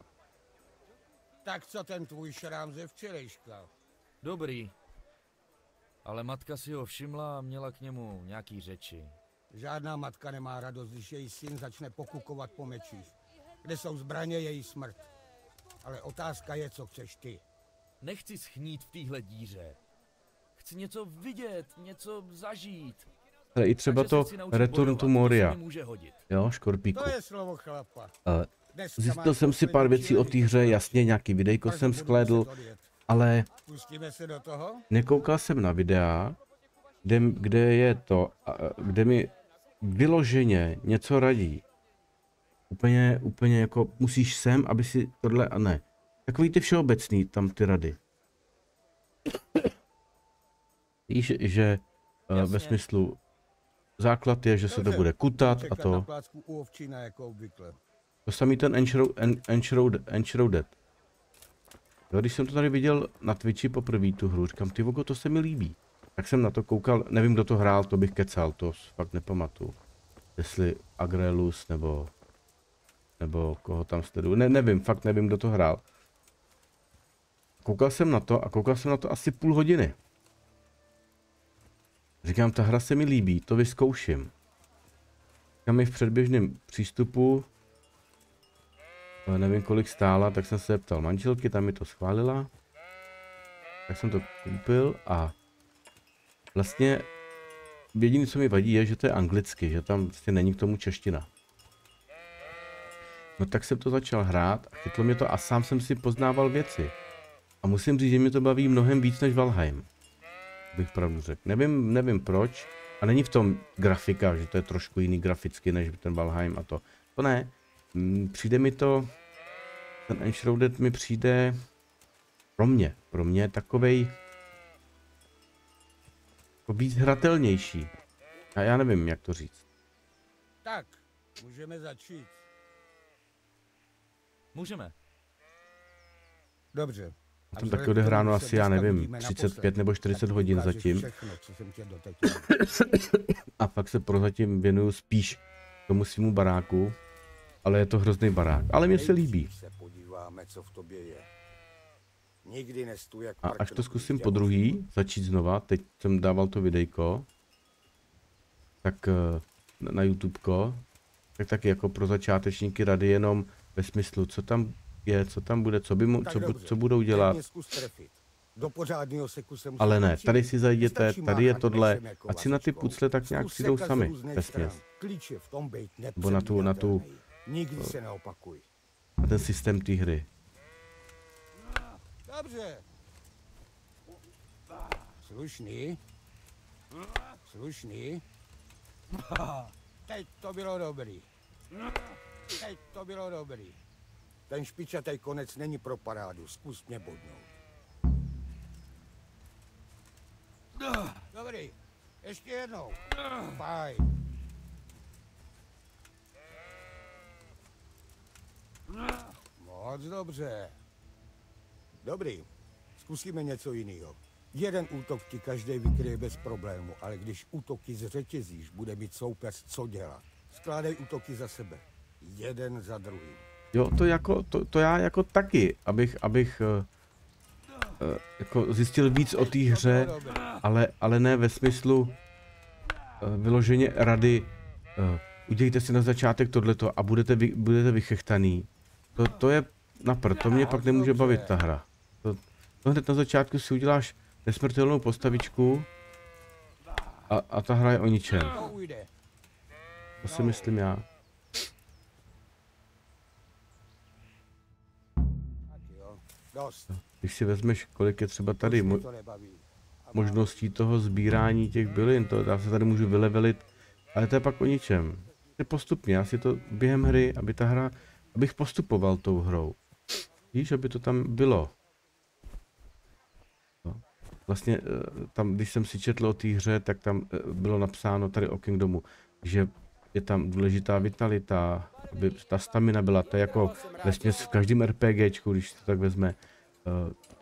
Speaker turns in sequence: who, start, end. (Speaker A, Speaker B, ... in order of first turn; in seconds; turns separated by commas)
Speaker A: 1.4-3.7, Speaker B: 4.2-4.7, Speaker B: 6.0-9.2, Speaker A: 9.5-15.0, Speaker A: 15.8-17.4, Speaker B: 18.0-19.8, Speaker B: 20.6-23.1, Speaker C: 23.5-25.6, Speaker B: 23.9-26.2, Speaker C: 26.3-27.1, Speaker A: 26.9-31.1, Speaker C: 28.2-32.5, Speaker A: 31.6-32.9, Speaker C: 33.1-33.5, Speaker A: 33.6-34.8, Speaker C: 34.9-36.4, Speaker C: 37.0-41.6, Speaker C: 42.7-48.0, Speaker C: 51.1-53.2, Speaker B: 52.3-52.8, Speaker C: 54.0-56.1, Speaker A: 54.7-57.8, Speaker C: 58.2-60.7, Speaker C: 62.1-69.8, Speaker C: 70.4-72.1, Speaker C: 73.2-75.8, Speaker C: 77.6-80.0, Speaker C: 82.2-84.3, Speaker C: 85.7-87.5, Speaker C: 89.2-92.5, Speaker C: 93.9-95.3, Speaker C: 96.5-97.1, Speaker C: 97.9-101.3, Speaker C: 103.4-106.9, Speaker C: 107.6-109.9, Speaker C: 110.7-119.1, Speaker C: 120.1-121.6, Speaker C: 122.6-124.1, Speaker C: 126.7-127.9, Speaker C: 128.5-129.6, Speaker A: 130.6-132.4, Speaker B: 134.5-134.9, Speaker A: 136.7-142.6, Speaker C: 137.6-141.1, Speaker C: 142.5-147.0, Speaker C: 147.6-149.5, Speaker A: 148.8-151.3, Speaker A: 152.4-154.8, Speaker C: 153.4-157.3, Speaker C: 158.8-160.8, Speaker C: 161.4-167.4, Speaker A: 166.2-178.7, Speaker C: 169.8-174.8, Speaker C: 176.2-177.1, Speaker C: 179.2-180.3, Speaker A: 182.2-182.8, Speaker A: 185.2-186.0, Speaker A: 187.2-188.2, Speaker A: 189.1-191.3, Speaker A: 192.6-193.8, Speaker A: 194.5-197.5, Speaker A: 200.8-204.1, Speaker A: 209.6-210.7, Speaker A: 212.0-223.4, Speaker C: 223.7-226.9, Speaker C: 228.0-232.1, Speaker A: 229.4-230.4, Speaker C: 233.2-245.9, Speaker A: 240.3-241.5, Speaker C: 247.3-248.6, Speaker A: 248.3-249.1, Speaker A: 250.2-250.7, Speaker C: 250.2-251.1, Speaker A: 255.7-256.9, Speaker C: 256.9-259.1, Speaker A: 258.6-260.6, Speaker C: 260.1-269.8, Speaker C: 270.5-271.7, Speaker C: 273.8-287.1